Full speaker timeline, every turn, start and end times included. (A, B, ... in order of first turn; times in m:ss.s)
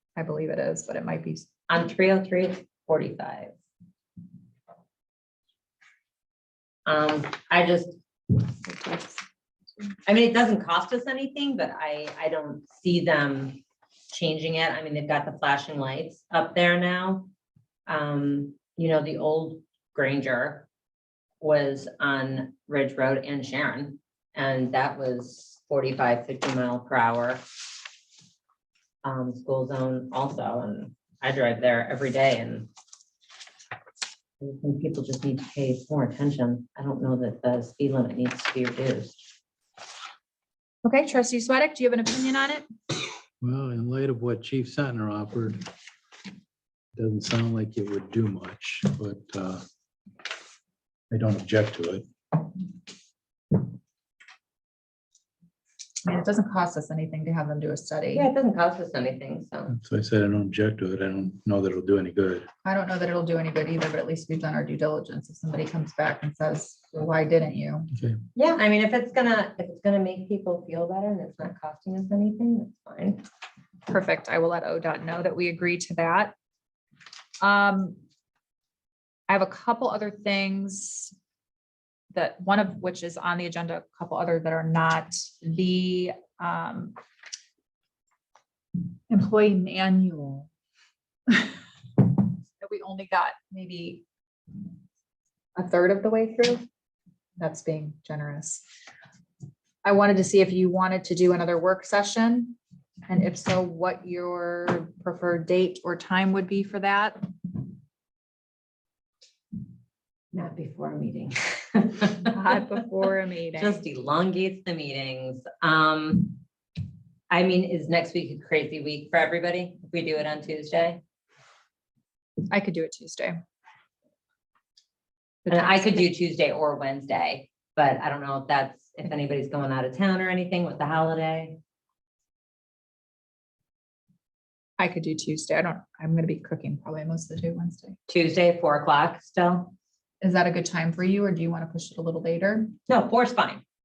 0:00.2-0:01.5 A
0:01.7-0:03.5 B
0:06.9-0:08.4 B
0:08.7-0:09.1 A
0:10.1-0:17.3 B
0:17.9-0:20.7 B
0:21.4-0:27.4 B
0:29.0-0:32.7 B
0:34.4-0:39.2 B
0:40.8-0:42.7 A
0:43.4-0:45.6 C
0:47.0-0:49.6 C
0:51.1-0:52.0 C
0:56.0-0:58.3 A
0:58.1-0:59.7 B
0:59.7-1:02.5 C
1:02.6-1:07.9 A
1:08.4-1:13.3 B
1:13.9-1:16.3 A
1:17.4-1:18.0 A
1:19.3-1:21.1 A
1:22.1-1:27.0 A
1:29.1-1:30.5 A
1:31.3-1:34.0 A
1:35.6-1:36.6 A
1:37.4-1:38.6 A
1:39.8-1:42.6 A
1:43.1-1:47.2 A
1:50.3-1:52.6 B
1:52.2-1:53.8 A
1:53.5-1:56.4 B
1:57.3-2:01.0 B
2:02.5-2:03.4 A
2:05.4-2:06.1 A
2:05.5-2:11.6 B
2:14.8-2:18.0 A
2:18.1-2:19.7 B
2:20.2-2:22.7 A
2:22.9-2:23.6 B